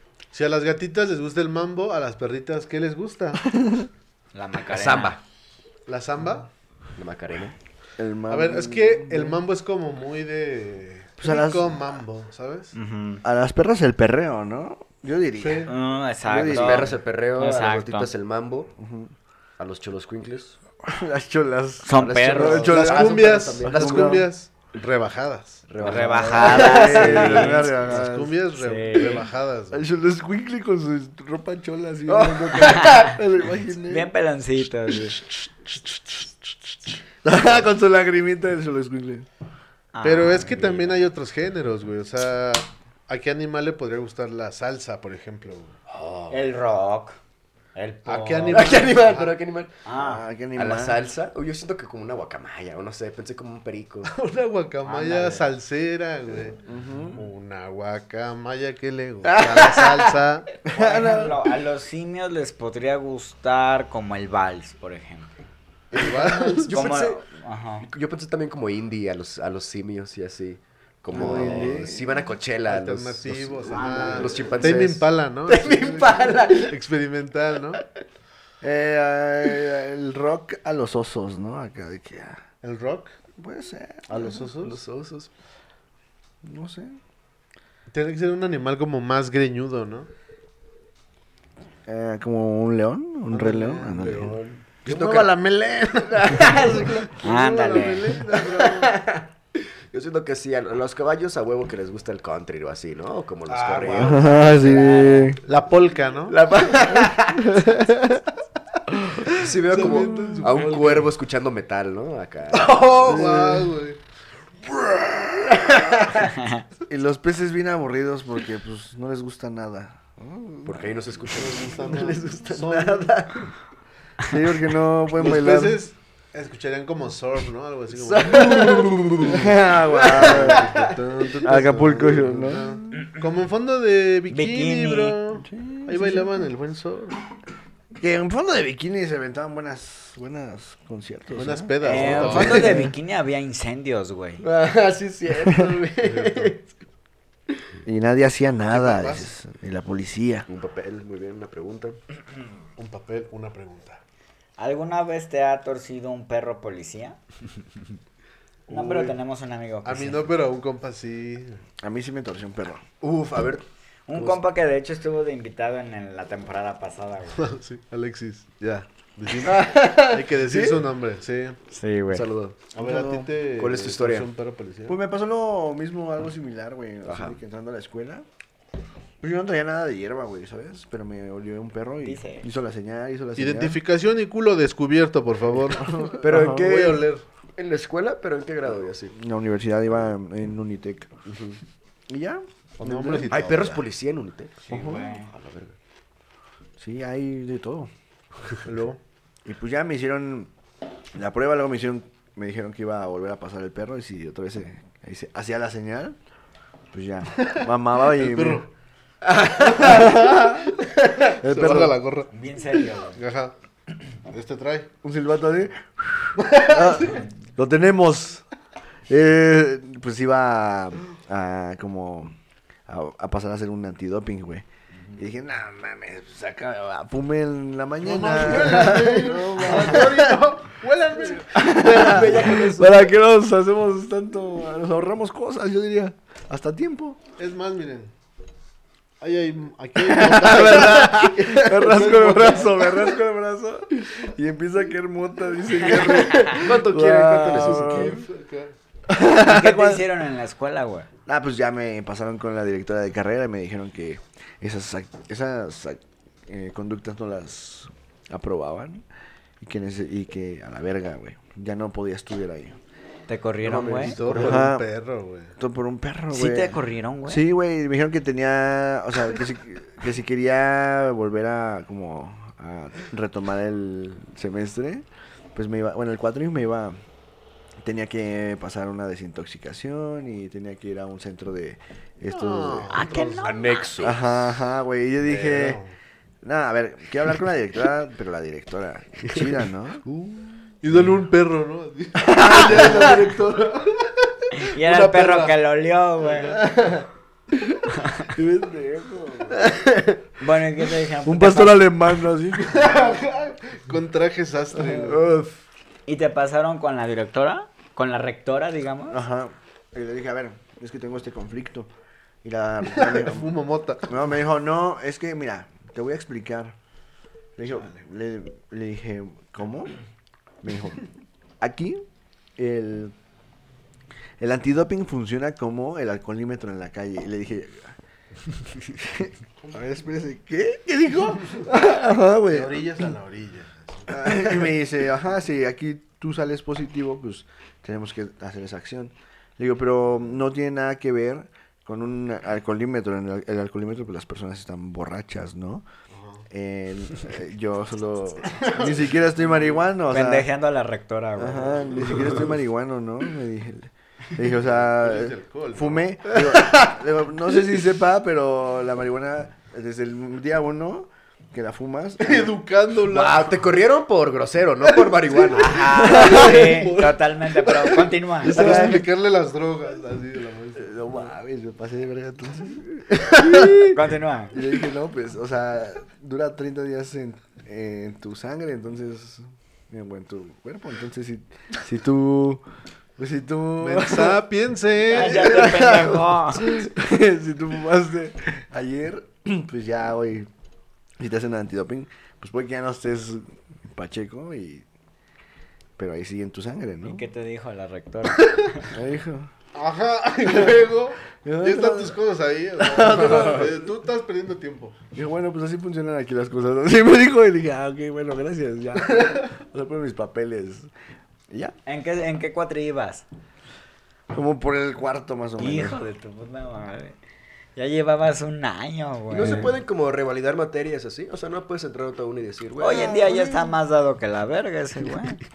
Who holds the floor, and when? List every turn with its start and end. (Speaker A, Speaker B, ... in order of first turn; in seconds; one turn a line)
Speaker A: 0.3-3.5
Speaker B: 3.5-3.9
Speaker C: 4.3-5.2
Speaker D: 4.7-5.2
Speaker A: 5.9-6.5
Speaker D: 7.0-7.5
Speaker B: 8.0-9.4
Speaker A: 8.3-12.8
Speaker B: 11.2-11.8
Speaker C: 12.8-13.2
Speaker B: 13.2-15.7
Speaker A: 15.4-15.7
Speaker C: 15.7-18.1
Speaker B: 16.3-17.0
Speaker D: 16.5-18.7
Speaker B: 18.8-19.1
Speaker D: 19.6-20.6
Speaker B: 20.8-24.3
Speaker C: 21.8-22.7
Speaker D: 22.0-24.2
Speaker A: 22.5-25.7
Speaker D: 25.7-27.5
Speaker C: 25.8-28.0
Speaker B: 25.8-28.3
Speaker A: 26.8-29.9
Speaker C: 28.6-29.2
Speaker B: 29.7-34.1
Speaker D: 32.1-33.1
Speaker C: 32.6-33.1
Speaker C: 33.9-35.1
Speaker B: 37.2-39.3
Speaker C: 39.9-41.0
Speaker A: 40.0-45.8
Speaker D: 45.9-46.4
Speaker C: 46.3-47.2
Speaker C: 47.8-48.8
Speaker A: 48.1-49.4
Speaker D: 48.5-49.7
Speaker C: 49.9-50.2
Speaker B: 50.0-51.0
Speaker D: 50.6-54.1
Speaker A: 54.1-56.6
Speaker C: 54.9-55.5
Speaker B: 56.7-57.2
Speaker A: 57.1-60.5
Speaker B: 60.7-61.4
Speaker C: 60.7-65.3
Speaker D: 65.9-67.2
Speaker A: 65.9-66.8
Speaker C: 66.7-67.9
Speaker D: 67.8-76.8
Speaker B: 71.1-72.2
Speaker A: 71.1-71.9
Speaker A: 72.7-77.8
Speaker B: 73.8-74.2
Speaker C: 73.8-74.4
Speaker B: 78.6-82.4
Speaker A: 82.6-83.2
Speaker B: 83.4-84.5
Speaker A: 84.1-84.8
Speaker D: 84.6-85.3
Speaker B: 86.4-87.0
Speaker A: 87.9-90.1
Speaker B: 91.9-94.4
Speaker A: 93.3-98.9
Speaker D: 94.2-95.3
Speaker D: 96.0-97.2
Speaker C: 97.2-98.2
Speaker D: 98.3-105.2
Speaker A: 103.5-106.4
Speaker B: 103.9-105.4
Speaker C: 104.4-105.3
Speaker D: 106.3-107.6
Speaker B: 106.9-108.3
Speaker B: 108.9-110.7
Speaker D: 109.3-113.6
Speaker A: 109.4-111.1
Speaker A: 112.5-114.0
Speaker B: 113.0-113.7
Speaker A: 114.9-115.2
Speaker D: 115.6-116.2
Speaker C: 116.3-116.6
Speaker B: 116.9-121.0
Speaker D: 120.7-123.5
Speaker A: 121.3-123.2
Speaker B: 124.3-125.8
Speaker A: 125.2-137.2
Speaker D: 127.9-130.9
Speaker B: 128.5-130.8
Speaker B: 131.4-133.0
Speaker C: 134.3-135.2
Speaker B: 135.4-136.5
Speaker B: 138.0-142.9
Speaker A: 141.3-142.8
Speaker C: 141.8-144.4
Speaker D: 144.4-146.7
Speaker A: 146.0-146.6
Speaker B: 147.9-150.5
Speaker A: 148.7-149.3
Speaker D: 150.5-152.0
Speaker A: 152.8-154.0
Speaker C: 154.6-157.2
Speaker A: 158.7-159.1
Speaker C: 158.7-160.3
Speaker A: 159.8-161.6
Speaker B: 161.8-162.8
Speaker D: 163.0-164.4
Speaker C: 164.1-167.4
Speaker A: 167.4-171.6
Speaker D: 169.5-170.8
Speaker B: 169.5-170.0
Speaker C: 171.7-172.2
Speaker D: 172.1-172.7
Speaker A: 172.7-175.0
Speaker B: 172.8-173.3
Speaker D: 173.6-174.3
Speaker B: 174.9-178.2
Speaker D: 177.1-177.4
Speaker B: 179.2-183.8
Speaker C: 182.0-182.5
Speaker A: 183.4-187.2
Speaker B: 185.7-186.7
Speaker D: 186.2-187.0
Speaker D: 187.6-189.2
Speaker B: 189.1-191.1
Speaker D: 191.3-191.6
Speaker B: 192.1-193.7
Speaker A: 192.8-193.8
Speaker D: 192.9-195.8
Speaker C: 194.7-195.3
Speaker B: 194.7-195.1
Speaker B: 196.8-197.9
Speaker A: 198.7-199.0
Speaker B: 199.4-200.5
Speaker B: 201.2-206.2
Speaker B: 206.9-208.6
Speaker A: 207.4-208.7
Speaker D: 209.2-210.3
Speaker B: 209.8-210.6
Speaker A: 209.8-210.7
Speaker D: 210.8-211.3
Speaker A: 211.3-212.3
Speaker B: 211.4-212.0
Speaker C: 212.3-213.2
Speaker A: 213.2-213.5
Speaker A: 214.3-214.9
Speaker B: 215.0-218.4
Speaker A: 216.4-217.2
Speaker B: 219.1-222.3
Speaker B: 222.9-224.7
Speaker B: 225.2-230.4
Speaker A: 228.0-232.4
Speaker B: 231.3-237.2
Speaker D: 231.6-233.1
Speaker A: 237.4-238.1
Speaker A: 239.2-243.0
Speaker B: 240.0-248.2
Speaker D: 246.0-248.2
Speaker A: 247.5-248.7
Speaker B: 249.1-250.1
Speaker C: 249.3-251.1
Speaker B: 251.3-259.0
Speaker B: 259.6-262.8
Speaker C: 263.3-264.2
Speaker D: 263.6-264.7
Speaker A: 264.0-265.5
Speaker B: 264.3-264.9
Speaker B: 265.6-277.0
Speaker C: 266.3-267.4
Speaker B: 277.8-283.1
Speaker A: 282.3-283.7
Speaker C: 282.9-283.9
Speaker D: 283.3-284.2
Speaker B: 284.0-285.8
Speaker A: 285.2-285.9
Speaker B: 286.4-290.0
Speaker D: 289.2-290.5
Speaker A: 290.8-295.6
Speaker B: 292.2-293.5
Speaker C: 294.6-296.6
Speaker B: 298.3-299.7
Speaker D: 299.6-300.2
Speaker C: 300.4-301.9
Speaker B: 301.2-303.1
Speaker A: 302.6-305.2
Speaker D: 305.1-305.6
Speaker C: 306.1-309.2
Speaker B: 309.1-311.9
Speaker B: 312.4-313.5
Speaker A: 312.9-314.1
Speaker B: 314.1-316.8
Speaker B: 317.6-319.9
Speaker B: 320.6-321.0
Speaker B: 321.6-322.0
Speaker B: 322.6-323.1
Speaker B: 324.4-328.0
Speaker B: 328.8-332.9
Speaker A: 332.5-334.7
Speaker B: 334.1-345.9
Speaker A: 346.1-346.4
Speaker B: 346.5-350.5
Speaker A: 348.5-349.6
Speaker C: 350.1-352.1
Speaker B: 351.4-362.5
Speaker A: 354.6-356.3
Speaker A: 362.2-363.8
Speaker D: 363.1-365.9
Speaker A: 365.0-371.0
Speaker C: 365.5-368.6
Speaker B: 366.0-366.6
Speaker B: 368.4-369.1
Speaker B: 370.8-374.0
Speaker C: 373.9-374.5
Speaker B: 374.5-382.6
Speaker B: 383.2-384.4
Speaker A: 383.8-385.6
Speaker C: 385.1-386.7
Speaker B: 385.2-390.5
Speaker B: 391.2-394.9
Speaker B: 396.0-397.2
Speaker C: 397.0-398.9
Speaker B: 398.8-399.5
Speaker A: 399.7-405.0
Speaker B: 400.5-400.8
Speaker B: 401.4-402.2
Speaker B: 402.8-403.7
Speaker B: 405.1-410.9
Speaker B: 411.5-411.8
Speaker C: 411.9-413.2
Speaker B: 414.3-416.0
Speaker C: 415.6-417.2
Speaker C: 417.8-419.7
Speaker D: 419.3-423.2
Speaker C: 422.8-425.4
Speaker B: 422.9-423.7